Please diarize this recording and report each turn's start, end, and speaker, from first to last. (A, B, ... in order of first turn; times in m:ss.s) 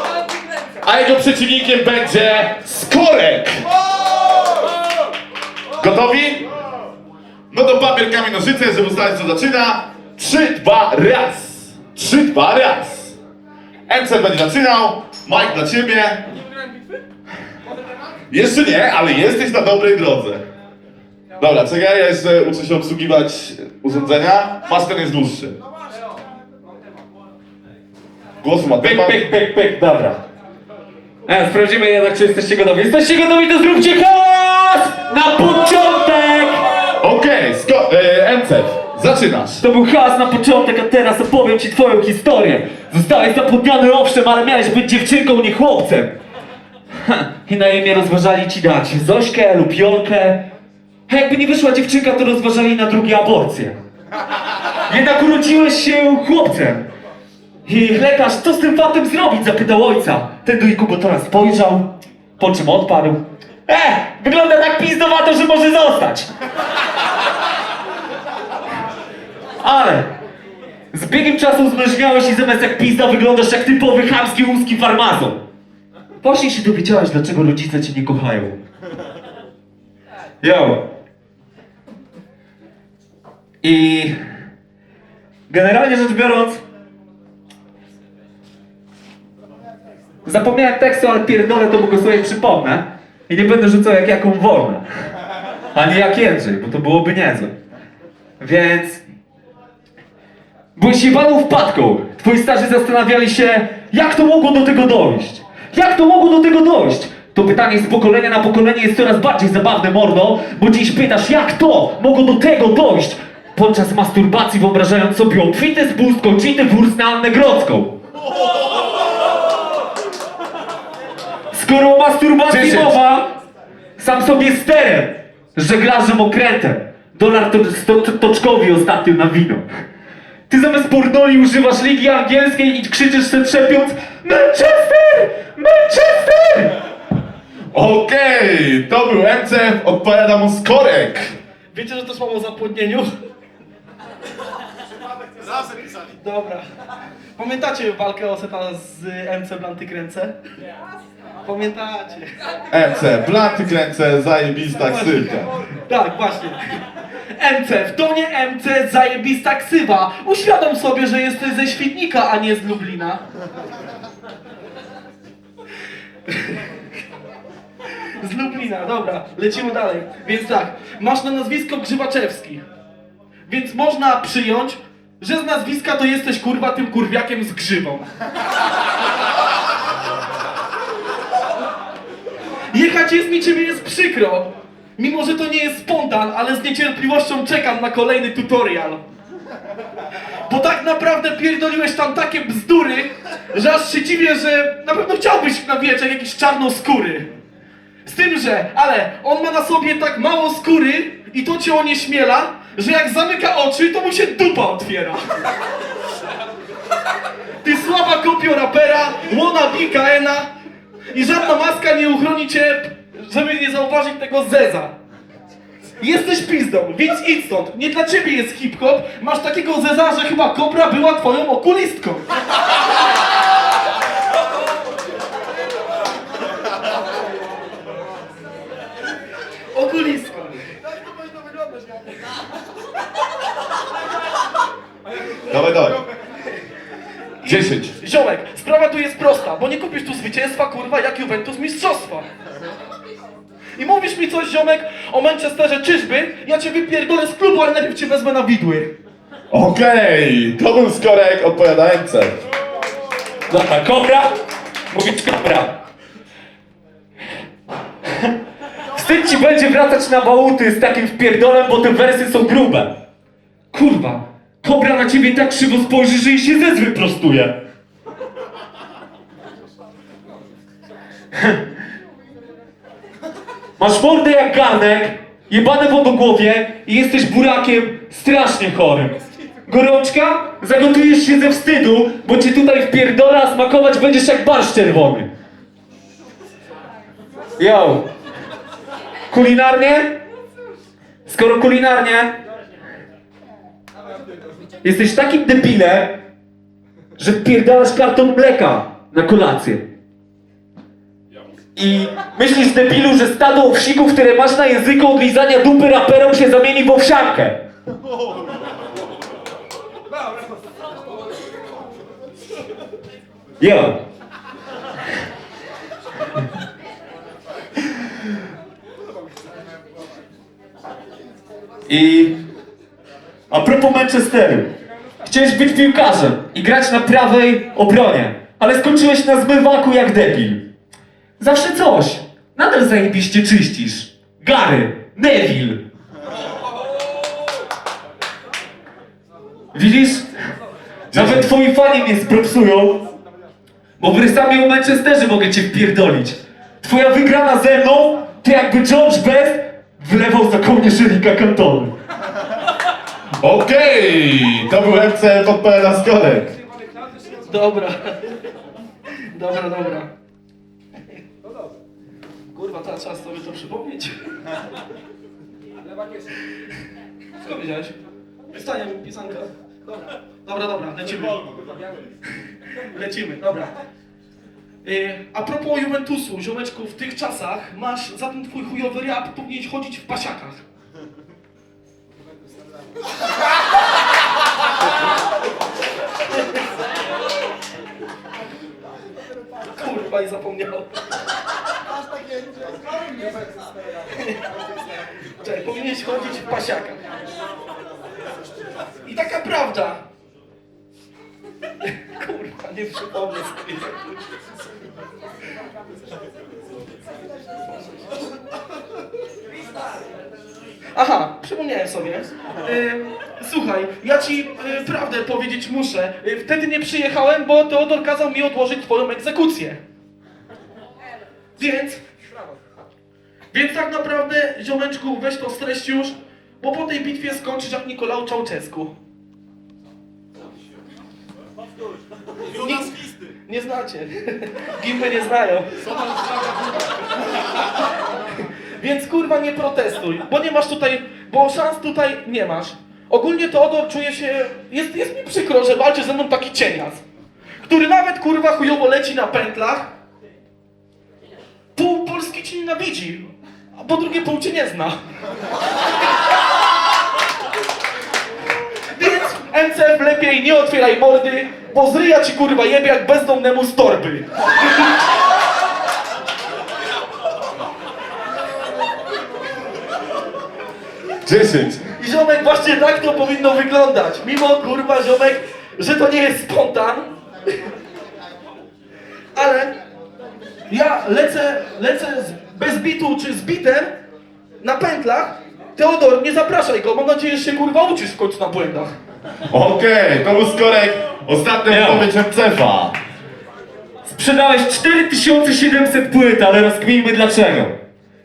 0:00.8-0:03.7 A
0:05.8-0:06.5 A
0:07.5-0:13.2 A
0:13.9-0:16.3 A
0:18.3-0:20.4 A
0:21.4-0:25.6 A
0:28.4-0:29.2 A
0:28.8-0:30.2 B
0:31.3-0:36.6 B
0:37.0-0:39.6 A
0:39.6-0:46.1 B
0:47.0-0:50.5 B
0:51.1-0:53.8 B
0:54.9-0:56.9 B
0:57.6-1:06.3 B
1:09.6-1:10.1 B
1:10.9-1:15.4 B
1:16.2-1:18.6 B
1:20.4-1:20.8 B
1:23.6-1:24.1 B
1:25.5-1:26.6 B
1:30.2-1:34.8 B
1:35.7-1:37.6 B
1:38.4-1:39.0 B
1:40.8-1:58.0 B
2:01.5-2:03.3 B
2:02.5-2:03.0 A
2:04.0-2:09.6 B
2:10.5-2:16.8 B
2:17.7-2:21.3 A
2:21.7-2:23.1 C
2:26.0-2:26.6 C
2:27.4-2:30.3 C
2:31.4-2:32.3 C
2:32.7-2:35.5 A
2:34.8-2:36.6 C
2:37.3-2:43.2 C
2:46.3-2:46.6 C
2:48.2-2:52.6 C
2:53.5-2:58.1 C
3:02.7-3:09.0 C
3:10.5-3:17.3 C
3:18.0-3:25.2 C
3:27.6-3:30.5 C
3:31.1-3:34.9 C
3:36.0-3:42.3 C
3:49.7-3:50.6 C
3:55.4-3:56.0 A
3:57.4-4:02.3 C
3:57.4-3:57.9 A
4:03.8-4:08.9 C
4:09.5-4:12.4 A
4:13.5-4:14.3 B
4:14.9-4:15.8 B
4:18.1-4:18.3 B
4:18.9-4:23.0 B
4:23.7-4:27.6 B
4:31.3-4:31.6 B
4:33.8-4:45.3 B
4:47.6-4:48.1 B
4:49.3-4:50.2 B
4:51.2-4:52.4 B
4:54.8-4:56.2 B
4:57.2-4:59.9 B
5:01.8-5:07.6 B
5:13.6-5:14.0 B
5:21.9-5:22.4 B
5:23.5-5:24.7 B
5:25.2-5:30.6 B
5:31.4-5:35.8 B
5:39.7-5:40.3 B
5:41.1-5:41.5 A
5:41.1-5:43.1 B
5:44.0-5:51.9 B
5:53.4-5:56.5 A
5:57.3-5:58.3 C
5:59.3-6:00.1 C
6:02.5-6:04.2 C
6:07.4-6:08.0 C
6:08.5-6:11.6 C
6:12.8-6:13.8 C
6:14.8-6:20.6 C
6:29.7-6:30.9 C
6:34.1-6:34.4 C
6:35.4-6:37.0 C
6:39.0-6:40.0 C
6:41.8-6:44.1 C
6:50.9-6:59.8 C
7:01.6-7:02.0 C
7:03.5-7:08.9 C
7:12.5-7:15.9 C
7:18.3-7:27.0 C
7:27.6-7:29.9 C
7:31.8-7:35.0 C
7:38.9-7:44.3 C
7:51.2-7:51.9 A
7:52.0-7:57.6 C
7:59.3-7:59.8 C
8:00.7-8:03.9 C
8:04.6-8:08.9 C
8:09.5-8:13.0 A
8:11.7-8:12.1 B
8:14.0-8:17.7 B